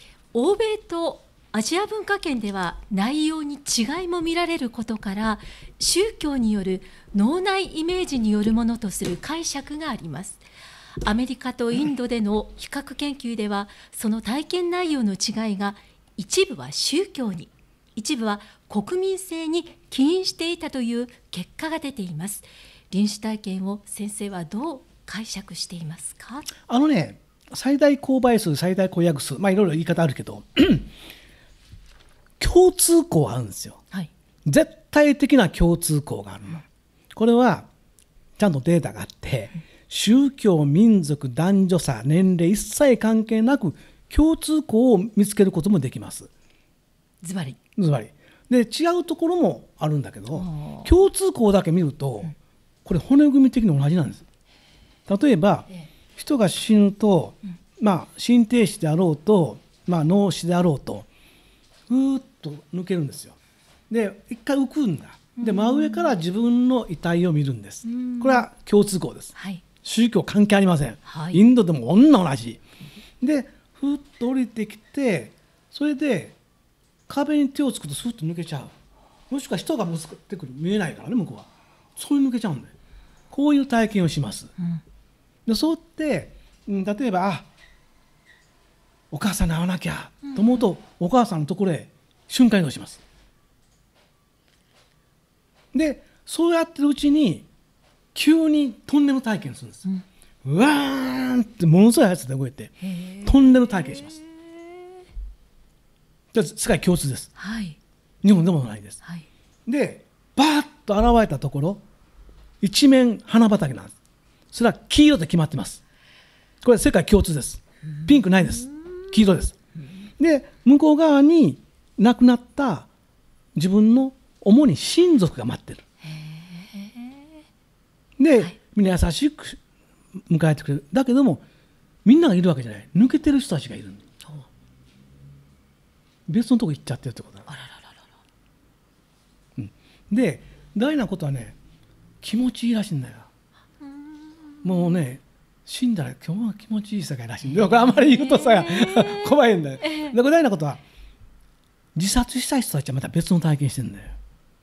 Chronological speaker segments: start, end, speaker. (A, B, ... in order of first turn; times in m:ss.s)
0:00.3-0:10.4 A
0:11.0-0:26.5 A
0:26.6-0:30.9 B
0:32.4-0:33.8 B
0:34.4-0:37.7 B
0:38.4-0:46.3 B
0:47.2-0:47.6 A
0:47.8-0:52.3 B
0:50.3-0:50.9 A
0:52.8-0:54.2 B
0:55.1-1:01.1 B
1:01.9-1:03.4 B
1:03.9-1:12.6 B
1:05.4-1:06.2 A
1:07.8-1:08.5 A
1:09.4-1:09.6 A
1:11.1-1:11.4 A
1:13.2-1:16.4 B
1:17.1-1:18.7 B
1:19.3-1:22.7 B
1:23.3-1:24.5 B
1:25.4-1:27.4 B
1:29.1-1:33.0 B
1:30.3-1:30.7 A
1:35.7-1:37.5 B
1:38.1-1:39.9 B
1:40.4-1:44.2 B
1:42.8-1:44.2 A
1:46.3-1:47.3 B
1:47.4-1:47.8 A
1:48.2-1:49.0 B
1:49.6-1:51.8 B
1:52.6-1:53.9 B
1:54.5-1:55.8 B
1:56.6-1:59.6 B
1:58.0-1:59.2 A
2:00.2-2:02.9 B
2:03.5-2:05.8 B
2:06.0-2:07.2 A
2:08.2-2:09.6 B
2:10.2-2:11.4 B
2:12.0-2:14.0 B
2:16.3-2:17.5 B
2:17.5-2:17.9 A
2:19.6-2:21.6 B
2:22.2-2:23.3 B
2:23.8-2:25.0 A
2:24.6-2:30.8 B
2:27.5-2:30.2 A
2:31.9-2:34.2 B